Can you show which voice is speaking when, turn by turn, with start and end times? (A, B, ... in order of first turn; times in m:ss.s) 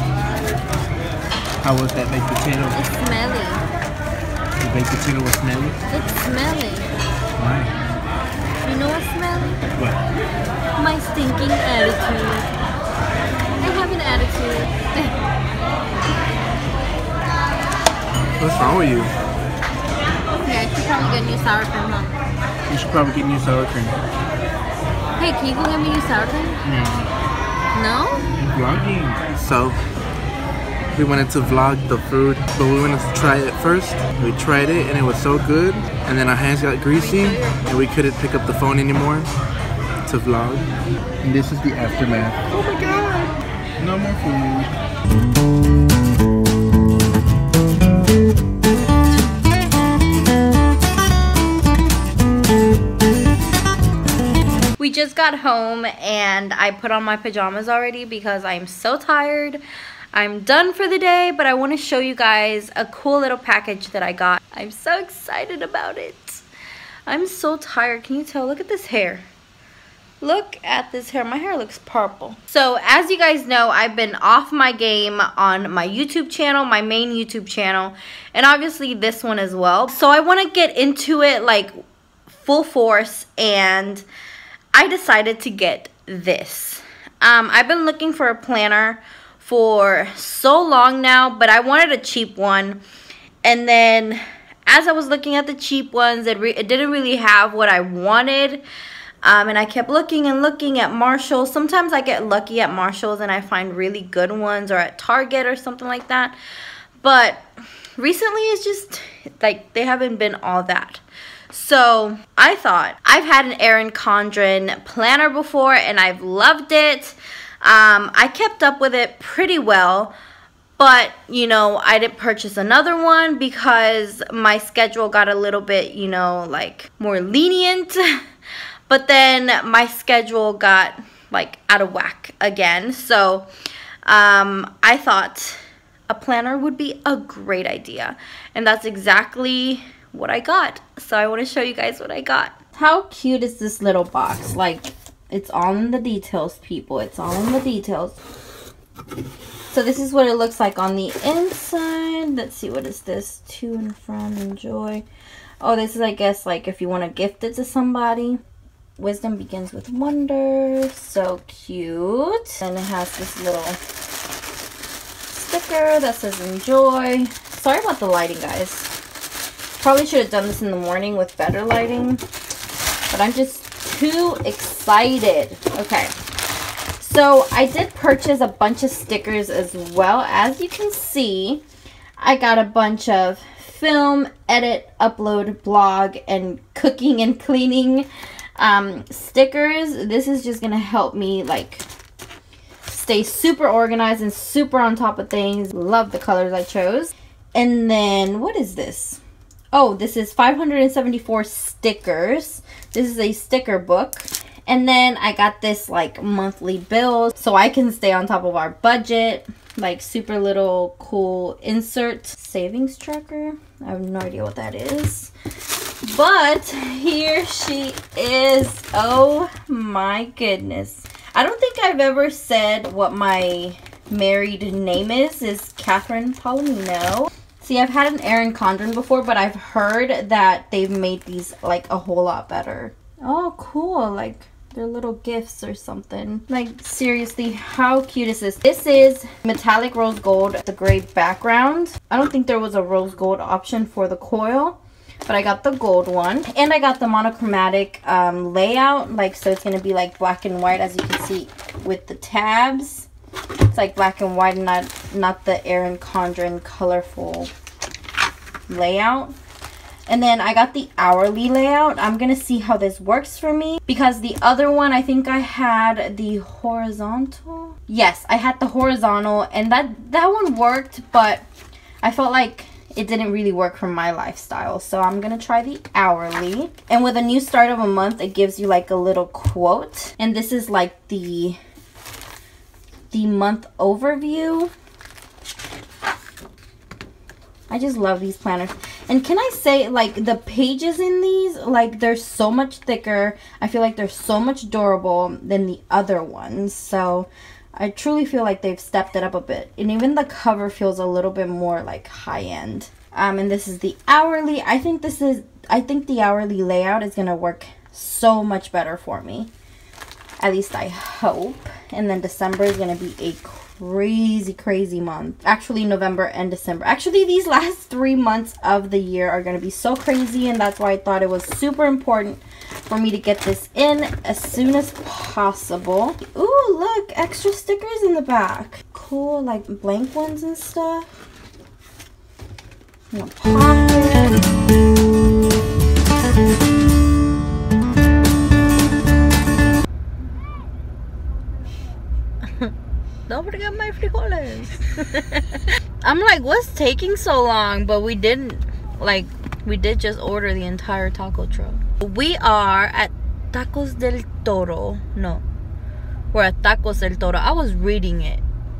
0:01.6-0:02.8 A
0:02.7-0:03.6 B
0:04.6-0:05.8 A
0:05.9-0:06.9 B
0:07.4-0:07.7 A
0:08.6-0:09.6 B
0:10.8-0:12.5 B
0:13.6-0:15.2 B
0:18.4-0:19.1 A
0:20.4-0:22.2 B
0:22.7-0:24.0 A
0:25.2-0:26.6 B
0:26.6-0:27.1 A
0:27.7-0:28.3 B
0:28.4-0:29.8 A
0:31.0-0:39.3 A
0:37.0-0:37.7 B
0:40.1-0:40.7 A
0:41.2-0:44.7 A
0:54.8-0:59.6 B
1:00.1-1:06.4 B
1:07.1-1:09.3 B
1:10.2-1:21.7 B
1:22.3-1:24.1 B
1:24.7-1:32.8 B
1:33.4-1:38.6 B
1:39.2-1:46.4 B
1:47.0-1:47.5 B
1:48.0-2:00.2 B
2:00.8-2:08.2 B
2:08.9-2:13.5 B
2:14.0-2:28.2 B
2:29.7-2:35.0 B
2:35.6-2:38.4 B
2:39.0-2:43.8 B
2:45.3-2:49.0 B
2:49.8-2:52.2 B
2:53.1-2:56.1 B
2:57.0-3:01.6 B
3:02.2-3:11.9 B
3:12.8-3:19.2 B
3:19.7-3:35.3 B
3:36.0-4:13.1 B
4:13.7-4:17.5 B
4:18.7-4:19.4 B
4:20.1-4:31.4 B
4:32.0-4:41.6 B
4:43.1-4:44.7 B
4:47.7-5:09.5 B
5:10.4-5:31.1 B
5:33.1-5:34.4 B
5:43.3-5:55.4 B
5:56.3-5:58.4 B